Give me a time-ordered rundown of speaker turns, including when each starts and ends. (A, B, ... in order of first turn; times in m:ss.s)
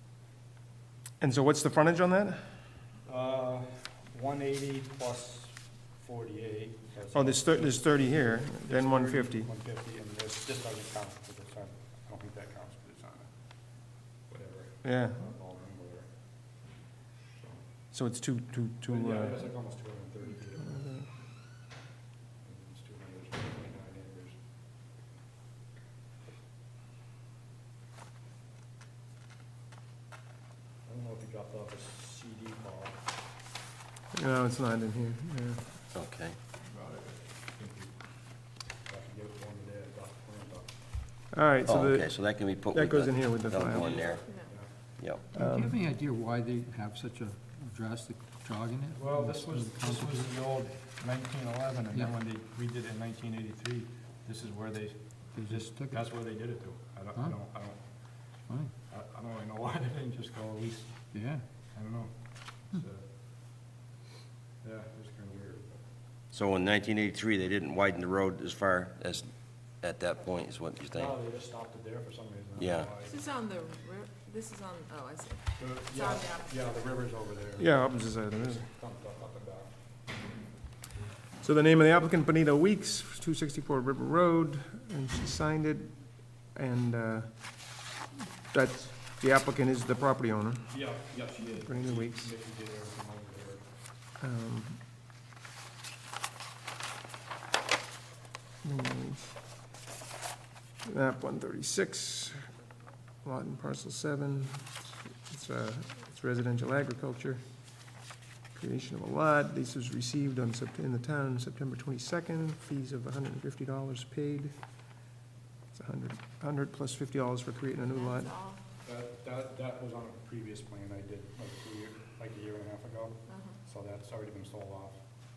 0:01.2-0:02.4 A
0:03.0-0:16.6 B
0:07.1-0:09.5 A
0:14.8-0:15.3 A
0:17.3-0:17.7 B
0:17.9-0:20.0 A
0:18.9-0:21.7 B
0:20.6-0:21.1 A
0:22.4-0:25.0 B
0:30.8-0:33.0 B
0:34.1-0:35.6 A
0:35.9-0:36.4 C
0:38.8-0:40.7 B
0:41.3-0:44.1 A
0:41.6-0:44.2 C
0:43.8-0:44.7 B
0:44.2-0:44.8 D
0:44.9-0:45.4 C
0:45.3-0:45.7 A
0:45.4-0:50.3 E
0:49.0-1:03.1 B
0:55.4-0:56.0 E
1:01.1-1:01.4 E
1:04.6-1:05.8 B
1:06.3-1:11.2 C
1:10.9-1:13.2 B
1:12.6-1:12.9 C
1:13.0-1:16.5 D
1:15.6-1:19.7 B
1:17.6-1:18.6 A
1:21.4-1:27.8 A
1:28.5-1:31.0 A
1:30.7-1:33.6 B
1:31.6-1:32.3 A
1:34.2-1:34.8 A
1:38.6-1:39.4 A
1:40.8-1:42.5 A
1:43.2-1:47.4 A
1:48.5-1:54.5 A
1:55.7-1:58.3 A
1:57.9-1:58.6 D
1:58.8-2:05.0 B
2:03.3-2:03.6 D